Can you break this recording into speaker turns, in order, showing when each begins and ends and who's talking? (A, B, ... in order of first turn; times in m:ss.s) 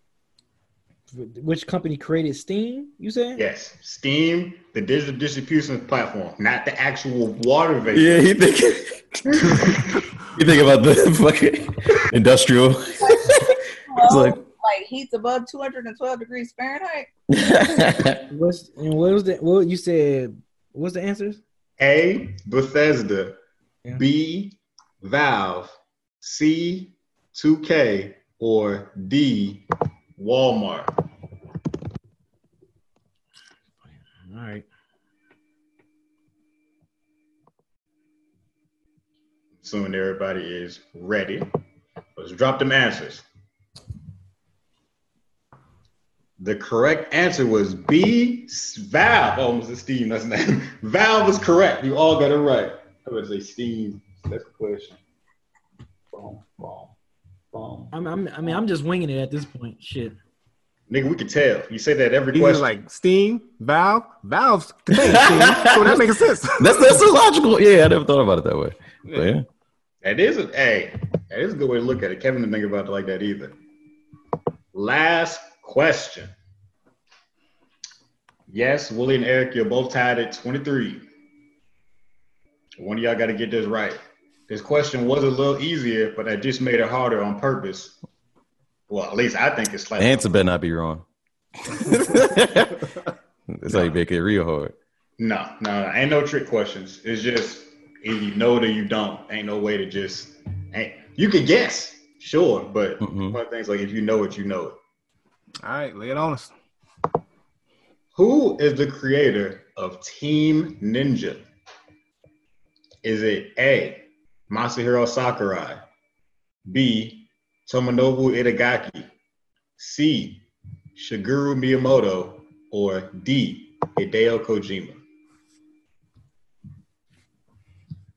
0:01.1-0:03.4 A
0:03.3-0:08.2 B
0:07.9-0:14.4 C
0:09.4-0:09.9 B
0:13.0-0:17.1 D
0:17.3-0:18.2 C
0:18.3-0:21.4 A
0:21.8-0:23.4 B
0:24.0-0:29.6 B
0:30.2-0:30.9 B
0:33.9-0:34.6 A
0:39.6-0:41.5 B
0:42.2-0:43.2 B
0:46.4-0:55.0 B
0:56.1-0:56.9 B
0:57.5-0:57.9 B
0:57.9-1:00.2 A
1:00.9-1:02.8 B
1:02.3-1:07.0 E
1:05.0-1:09.4 C
1:10.0-1:13.6 B
1:14.7-1:16.3 B
1:18.5-1:21.0 B
1:22.8-1:28.0 B
1:28.9-1:30.3 B
1:30.0-1:31.0 C
1:31.7-1:32.9 C
1:33.5-1:34.7 C
1:35.2-1:44.8 B
1:43.0-1:43.4 C
1:45.6-1:46.5 E
1:48.1-1:51.4 B
1:53.0-1:55.8 B
1:56.7-1:59.1 B
1:59.8-2:00.4 B
2:01.0-2:05.0 B